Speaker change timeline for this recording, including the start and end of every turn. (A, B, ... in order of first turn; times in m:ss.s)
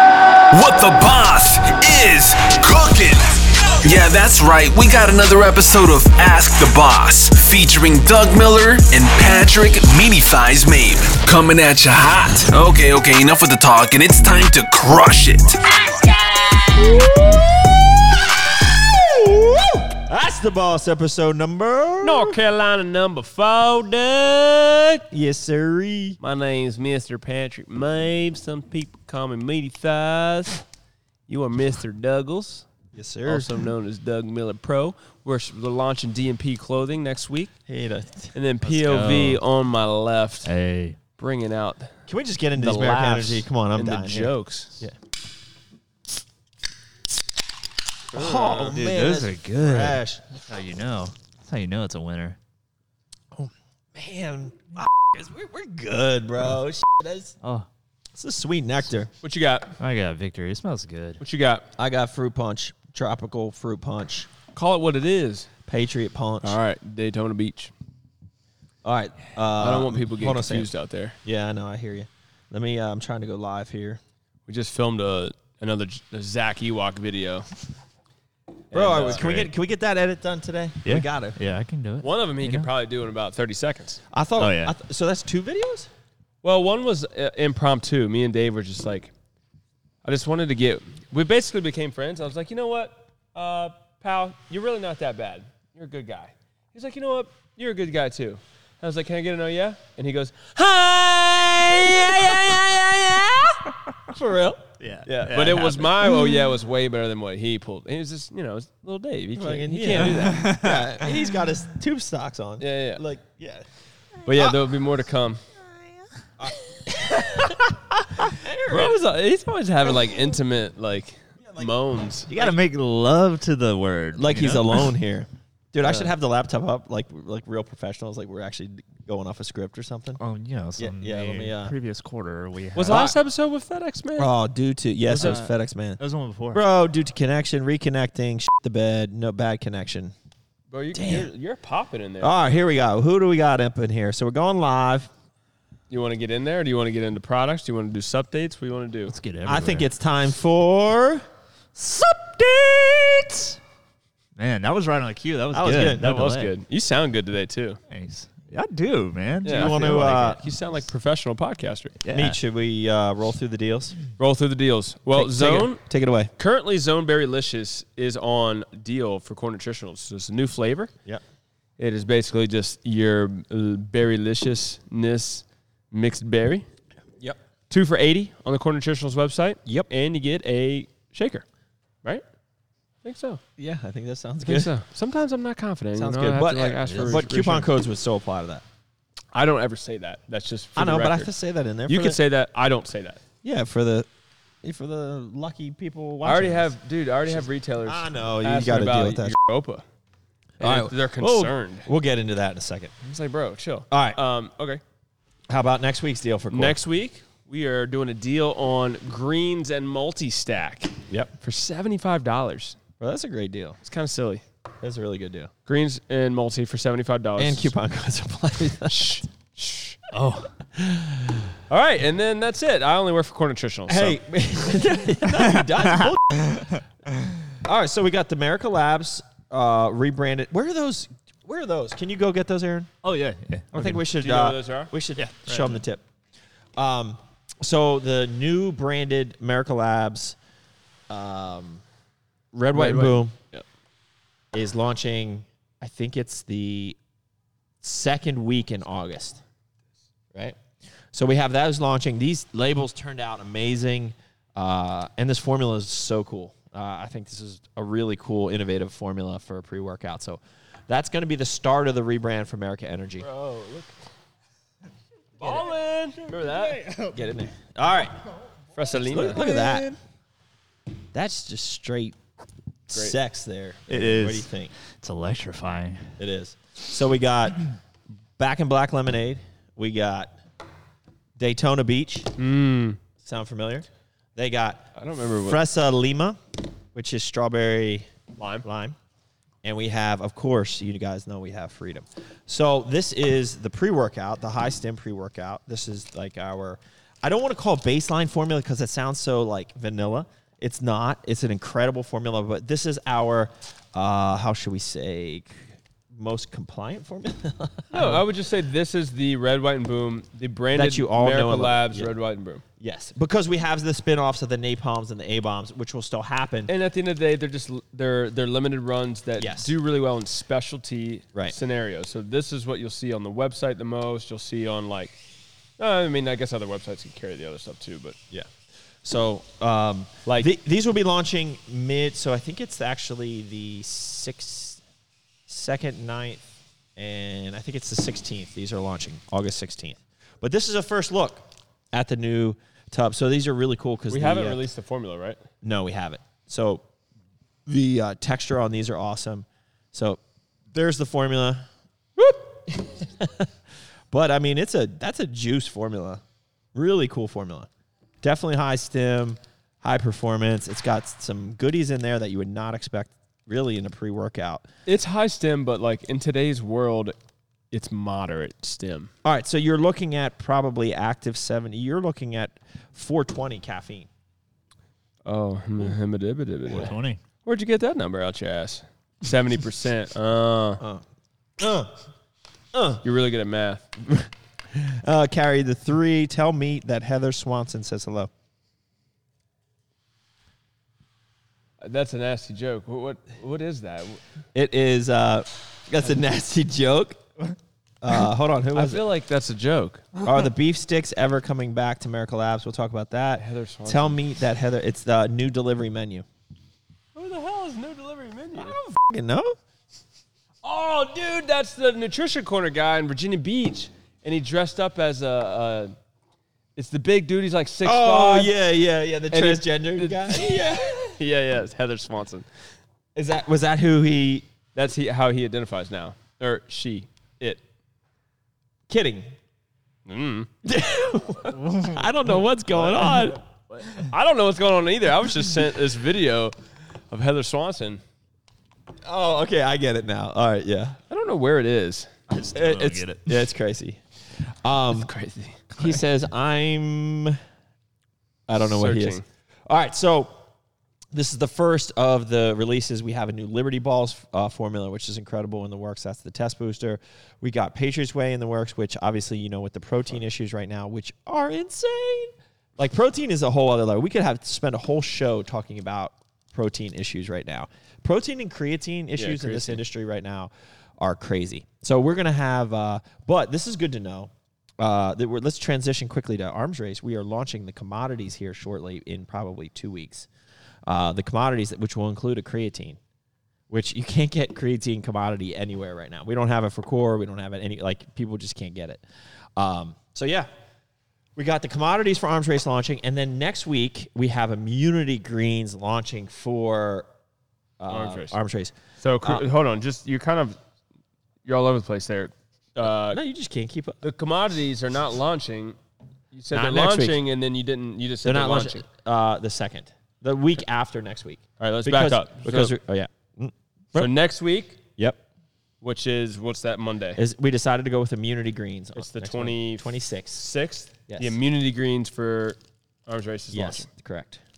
0:00.5-0:16.9 A
0:16.9-0:17.8 B
0:18.7-0:22.4 B
0:22.0-0:25.0 C
0:25.1-0:26.2 B
0:26.2-0:30.6 C
0:31.3-0:32.7 C
0:32.9-0:33.6 B
0:33.2-0:37.5 C
0:37.7-0:38.3 B
0:38.3-0:40.5 C
0:38.6-0:39.4 D
0:40.4-0:41.0 D
0:41.2-0:42.0 C
0:42.1-0:44.9 B
0:42.6-0:44.8 C
0:48.1-0:50.4 B
0:48.1-0:48.7 C
0:48.7-0:52.4 D
0:53.3-0:57.4 B
0:57.4-0:57.7 D
0:58.1-0:59.1 B
0:59.2-0:59.8 C
0:59.8-1:01.2 D
1:01.2-1:01.7 C
1:01.8-1:04.3 B
1:04.5-1:05.5 C
1:05.7-1:06.6 B
1:06.4-1:07.7 C
1:08.8-1:10.7 B
1:09.6-1:11.2 C
1:11.2-1:14.0 B
1:14.5-1:17.5 C
1:18.7-1:19.2 C
1:18.7-1:21.4 B
1:19.1-1:19.5 D
1:20.8-1:22.7 D
1:22.0-1:24.0 C
1:24.1-1:25.9 B
1:24.4-1:24.8 D
1:26.4-1:29.1 C
1:30.0-1:43.3 C
1:41.6-1:44.6 B
1:44.8-1:46.1 D
1:45.0-1:50.5 C
1:49.4-1:53.6 B
1:50.1-1:51.2 D
1:52.6-1:53.0 C
1:54.2-1:55.4 C
1:54.3-1:54.6 B
1:56.4-1:59.0 B
1:57.2-1:57.5 C
1:58.7-2:02.3 C
2:02.3-2:02.6 B
2:02.3-2:04.9 D
2:04.1-2:10.2 B
2:05.8-2:06.1 C
2:10.2-2:13.1 D
2:10.8-2:11.7 B
2:12.8-2:14.3 C
2:12.8-2:13.2 B
2:14.2-2:16.0 B
2:15.1-2:16.6 D
2:16.5-2:20.1 B
2:20.7-2:22.3 C
2:20.9-2:21.3 B
2:22.2-2:25.1 B
2:25.9-2:29.1 C
2:29.1-2:29.9 D
2:29.4-2:31.2 B
2:31.8-2:33.5 B
2:34.4-2:36.5 D
2:35.5-2:36.1 B
2:36.0-2:37.8 C
2:37.9-2:40.4 D
2:39.4-2:42.0 C
2:39.5-2:40.4 B
2:42.0-2:42.4 D
2:42.1-2:44.1 B
2:44.2-2:45.8 C
2:45.1-2:46.3 B
2:46.4-2:50.9 C
2:51.8-2:56.7 C
2:57.7-3:01.4 C
3:03.0-3:03.4 C
3:03.6-3:04.7 B
3:04.4-3:07.7 C
3:06.0-3:08.6 B
3:06.8-3:07.2 D
3:09.3-3:11.3 C
3:10.8-3:12.2 B
3:11.9-3:13.2 C
3:13.4-3:14.1 B
3:14.6-3:16.7 B
3:16.2-3:19.8 C
3:17.3-3:19.3 B
3:20.6-3:21.9 C
3:20.6-3:22.9 B
3:23.0-3:24.8 C
3:23.9-3:24.2 B
3:25.5-3:26.8 B
3:26.5-3:32.8 C
3:33.0-3:33.8 B
3:33.8-3:34.4 C
3:34.8-3:35.5 B
3:35.6-3:37.7 C
3:37.4-3:39.2 B
3:38.9-3:40.0 C
3:40.1-3:40.5 D
3:40.7-3:41.5 B
3:41.7-3:44.2 C
3:43.9-3:46.8 B
3:45.4-3:46.8 D
3:47.6-3:52.9 B
3:53.0-3:54.0 D
3:53.7-3:56.0 B
3:54.2-3:54.9 C
3:55.2-3:55.8 D
3:56.8-4:00.4 B
4:01.1-4:01.8 B
4:02.5-4:03.3 B
4:02.7-4:03.6 C
4:04.5-4:07.0 B
4:07.8-4:09.4 B
4:11.1-4:23.3 B
4:23.2-4:23.9 C
4:25.4-4:26.8 C
4:25.4-4:25.7 B
4:26.4-4:27.2 D
4:27.1-4:28.2 B
4:28.8-4:29.4 C
4:28.9-4:29.9 B
4:29.3-4:30.0 D
4:31.1-4:32.2 B
4:32.9-4:34.7 B
4:33.9-4:36.1 D
4:36.2-4:37.8 B
4:38.4-4:40.3 B
4:41.4-4:42.4 B
4:42.4-4:43.0 C
4:43.2-4:46.4 B
4:44.9-4:45.6 C
4:46.9-4:48.1 B
4:48.4-4:48.6 C
4:48.6-4:49.0 B
4:49.6-5:08.2 B
5:07.9-5:12.6 C
5:10.7-5:12.1 B
5:12.8-5:16.7 B
5:16.7-5:25.2 C
5:19.4-5:19.7 B
5:25.8-5:28.2 C
5:29.0-5:34.8 B
5:30.2-5:30.5 C
5:35.5-5:36.4 B
5:37.0-5:44.6 B
5:44.1-5:45.4 C
5:45.6-5:46.8 B
5:47.6-5:50.2 B
5:50.7-5:51.6 B
5:52.2-5:53.5 B
5:54.1-5:56.2 B
5:56.7-5:57.7 B
5:58.2-6:04.6 B
6:04.8-6:07.1 C
6:07.7-6:09.1 C
6:09.2-6:14.1 B
6:15.2-6:20.8 C
6:16.7-6:17.2 D
6:21.6-6:22.0 B
6:22.7-6:23.0 B
6:23.0-6:23.9 C
6:24.0-6:28.3 B
6:31.8-6:34.2 C
6:34.5-6:37.2 B
6:38.0-6:39.0 B
6:38.7-6:40.2 C
6:40.2-6:46.2 B
6:43.4-6:44.2 C
6:47.1-6:48.8 C
6:48.6-6:49.6 B
6:50.6-6:55.9 C
6:56.8-6:58.5 C
6:57.8-7:01.2 B
6:59.3-7:02.5 C
7:03.1-7:04.5 B
7:04.7-7:07.6 C
7:08.9-7:09.3 B
7:10.0-7:10.5 C
7:10.6-7:13.4 B
7:12.7-7:16.6 C
7:17.1-7:18.0 C
7:19.0-7:21.0 B
7:21.1-7:22.1 C
7:22.3-7:23.5 D
7:22.5-7:25.1 B
7:24.9-7:26.0 C
7:25.7-7:27.4 B
7:28.5-7:30.4 B
7:28.5-7:29.2 C
7:31.1-8:00.3 B
7:49.2-7:49.8 C
8:00.8-8:03.0 B
8:03.7-8:09.0 B
8:09.6-8:10.5 B
8:11.4-8:17.1 B
8:17.8-8:19.4 B
8:17.9-8:18.4 C
8:19.0-8:20.6 C
8:21.4-8:23.2 C
8:23.1-8:24.0 B
8:24.0-8:25.8 C
8:26.3-8:28.8 C
8:26.5-8:27.2 B
8:28.2-8:34.1 B
8:31.6-8:32.7 C
8:33.9-8:34.8 C
8:35.8-8:37.2 C
8:37.2-8:40.4 B
8:39.0-8:43.9 C
8:41.1-8:41.4 B
8:43.5-8:44.4 B